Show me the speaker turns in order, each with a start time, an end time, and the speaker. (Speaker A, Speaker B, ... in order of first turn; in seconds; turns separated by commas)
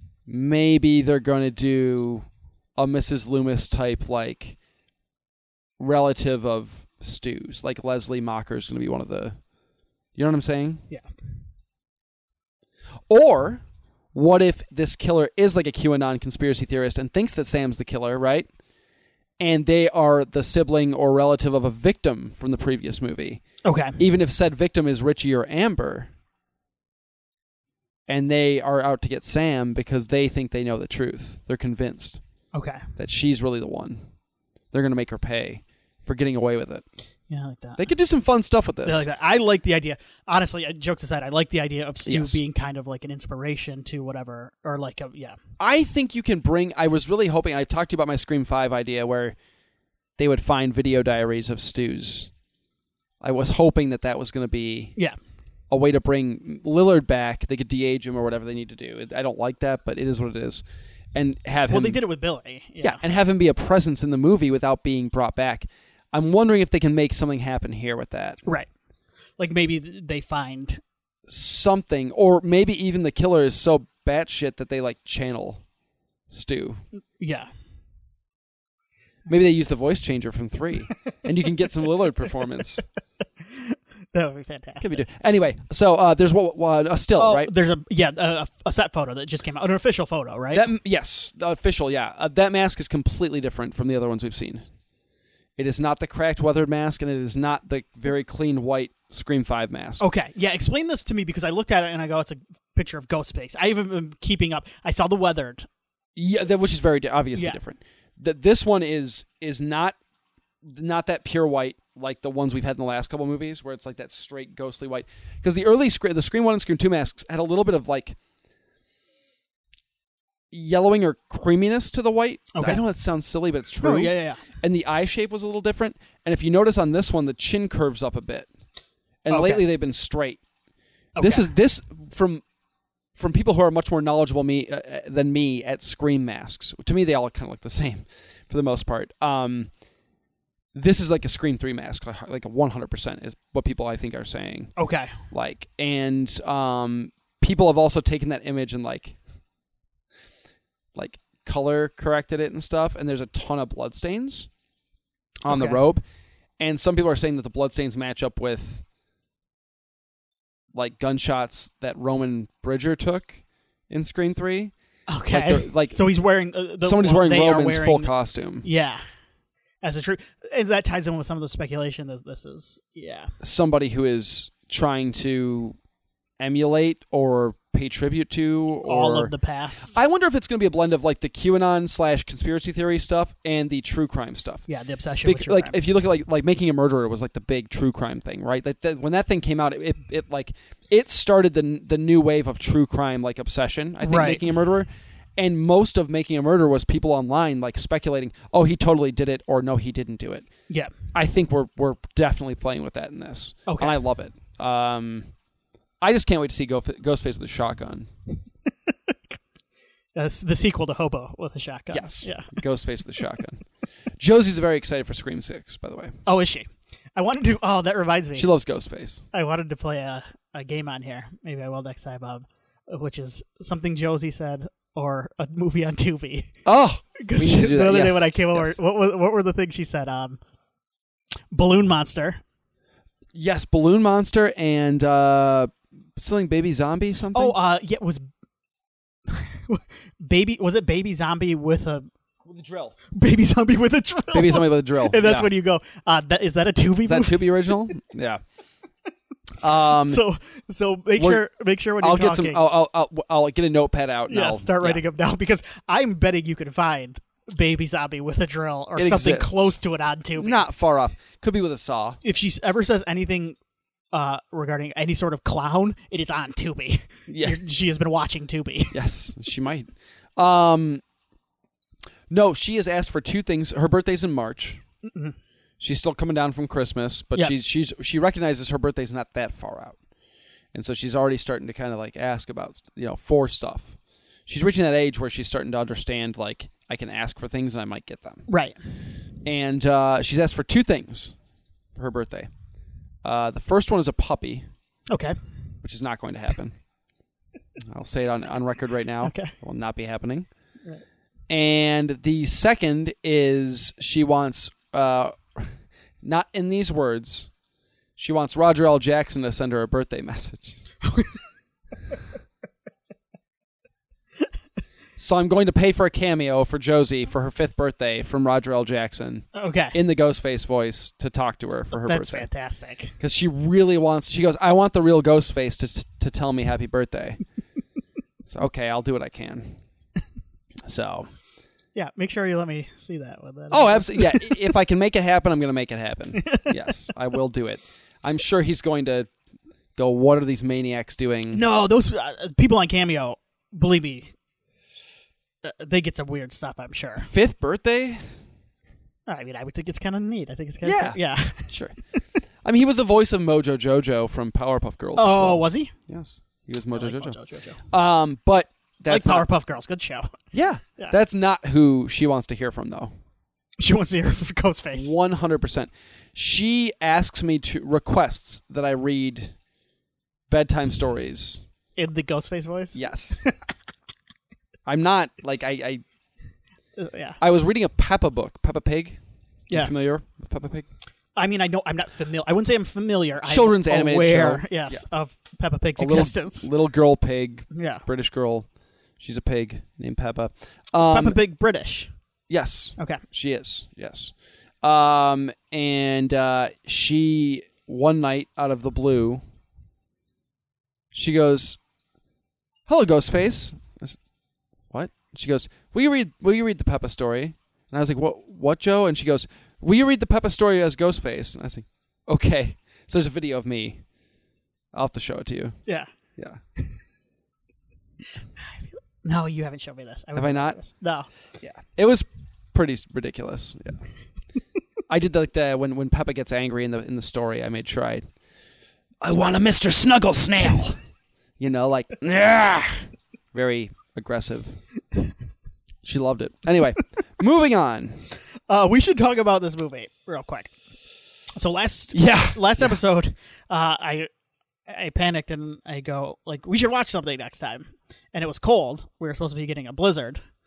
Speaker A: 0.3-4.6, Speaker A: 5.8-9.4, Speaker A: 10.2-10.8, Speaker A: 13.1-13.6, Speaker A: 14.1-18.5, Speaker A: 19.4-23.4, Speaker B: 23.6-24.0, Speaker A: 24.0-26.1, Speaker A: 28.1-32.2, Speaker B: 32.5-32.8, Speaker A: 33.0-34.0, Speaker A: 34.7-36.8, Speaker B: 37.3-37.8, Speaker A: 37.8-39.1, Speaker B: 38.8-45.4, Speaker A: 42.0-42.4, Speaker A: 45.6-49.4, Speaker A: 50.2-52.3, Speaker A: 53.2-54.9, Speaker A: 55.7-60.6, Speaker A: 61.1-62.0, Speaker B: 61.7-63.0, Speaker A: 62.8-68.4, Speaker B: 69.4-70.8, Speaker A: 71.3-75.6, Speaker A: 76.3-76.8, Speaker B: 77.2-77.5, Speaker A: 79.3-82.8, Speaker B: 83.4-85.0, Speaker A: 84.8-87.5, Speaker B: 87.2-90.7, Speaker A: 90.5-94.6, Speaker A: 95.6-100.0, Speaker B: 100.0-105.7, Speaker A: 106.2-110.0, Speaker A: 110.6-118.2, Speaker A: 120.5-128.5, Speaker B: 122.5-122.8, Speaker B: 123.8-124.4, Speaker A: 129.2-130.4, Speaker B: 129.3-129.6, Speaker B: 131.2-131.5, Speaker A: 131.2-132.4, Speaker A: 133.2-139.7, Speaker A: 140.7-144.7, Speaker B: 144.8-145.1, Speaker A: 145.3-149.2, Speaker A: 150.9-154.5, Speaker A: 155.4-156.0, Speaker B: 155.5-155.8, Speaker A: 156.6-158.8, Speaker A: 160.7-164.7, Speaker B: 165.1-168.1, Speaker A: 165.3-166.0, Speaker A: 166.8-168.7, Speaker B: 168.6-169.0, Speaker B: 169.8-173.3, Speaker A: 173.4-175.8, Speaker A: 176.4-179.3, Speaker B: 178.8-180.0, Speaker A: 179.9-184.6, Speaker B: 184.7-185.8, Speaker A: 185.2-200.5, Speaker B: 194.0-194.4, Speaker A: 201.1-205.3, Speaker B: 203.7-203.9, Speaker A: 206.0-208.1, Speaker B: 210.1-212.5, Speaker A: 211.9-213.6, Speaker A: 214.2-216.2, Speaker B: 216.2-218.5, Speaker A: 218.3-219.2, Speaker B: 219.3-226.5, Speaker A: 226.6-228.8, Speaker B: 227.2-230.4, Speaker B: 231.5-232.4, Speaker A: 233.3-237.6, Speaker B: 237.3-238.2, Speaker B: 239.3-242.1, Speaker A: 242.4-242.9, Speaker B: 243.1-247.9, Speaker A: 244.3-245.5, Speaker A: 247.1-248.4, Speaker A: 249.6-250.2, Speaker B: 249.8-252.6, Speaker A: 251.2-251.4, Speaker A: 252.0-255.0, Speaker B: 254.3-260.6, Speaker A: 258.9-259.8, Speaker A: 260.4-262.2, Speaker B: 262.2-263.6, Speaker B: 264.1-268.9, Speaker A: 267.3-267.6, Speaker A: 268.9-271.0, Speaker A: 272.3-274.8, Speaker B: 275.0-275.3, Speaker A: 275.8-280.0, Speaker A: 280.7-288.4, Speaker B: 288.5-288.7, Speaker A: 289.4-291.3, Speaker A: 291.9-292.5, Speaker A: 293.2-294.6, Speaker B: 295.1-295.4, Speaker A: 295.8-296.8, Speaker A: 297.8-300.5, Speaker B: 299.2-299.5, Speaker A: 301.5-307.5, Speaker A: 308.2-310.8, Speaker B: 311.0-311.3, Speaker A: 315.2-322.5, Speaker B: 319.5-320.0, Speaker B: 321.9-323.1, Speaker A: 323.2-327.4, Speaker A: 328.4-329.8, Speaker A: 330.8-331.3, Speaker B: 331.9-334.7, Speaker A: 333.7-339.3, Speaker B: 336.3-336.7, Speaker A: 339.9-341.6, Speaker B: 341.5-344.3, Speaker B: 345.6-347.3, Speaker A: 347.2-348.2, Speaker B: 349.3-352.2, Speaker A: 350.8-351.9, Speaker A: 352.6-357.4, Speaker B: 355.2-355.9, Speaker B: 356.9-357.8, Speaker A: 357.9-359.4, Speaker B: 359.1-360.4, Speaker A: 360.5-363.1, Speaker B: 363.8-365.1, Speaker A: 364.9-369.5, Speaker A: 370.5-371.6, Speaker B: 372.0-373.5, Speaker A: 372.9-373.4, Speaker A: 374.9-376.0, Speaker B: 377.0-377.4, Speaker A: 377.4-379.2, Speaker A: 379.7-380.9, Speaker B: 381.4-386.7, Speaker A: 383.4-385.0, Speaker A: 386.0-388.7, Speaker B: 387.7-388.0, Speaker A: 389.2-391.4, Speaker B: 391.0-392.1, Speaker A: 392.5-399.4, Speaker A: 401.1-401.8, Speaker A: 402.9-404.2, Speaker A: 404.9-414.0, Speaker A: 414.9-415.8, Speaker B: 418.6-421.3, Speaker A: 420.3-420.8, Speaker A: 421.6-424.0, Speaker A: 425.1-428.2, Speaker A: 429.2-431.0, Speaker A: 431.6-434.8, Speaker A: 436.0-438.2, Speaker B: 438.7-440.7, Speaker B: 441.5-444.3, Speaker A: 442.1-443.0, Speaker B: 444.9-450.4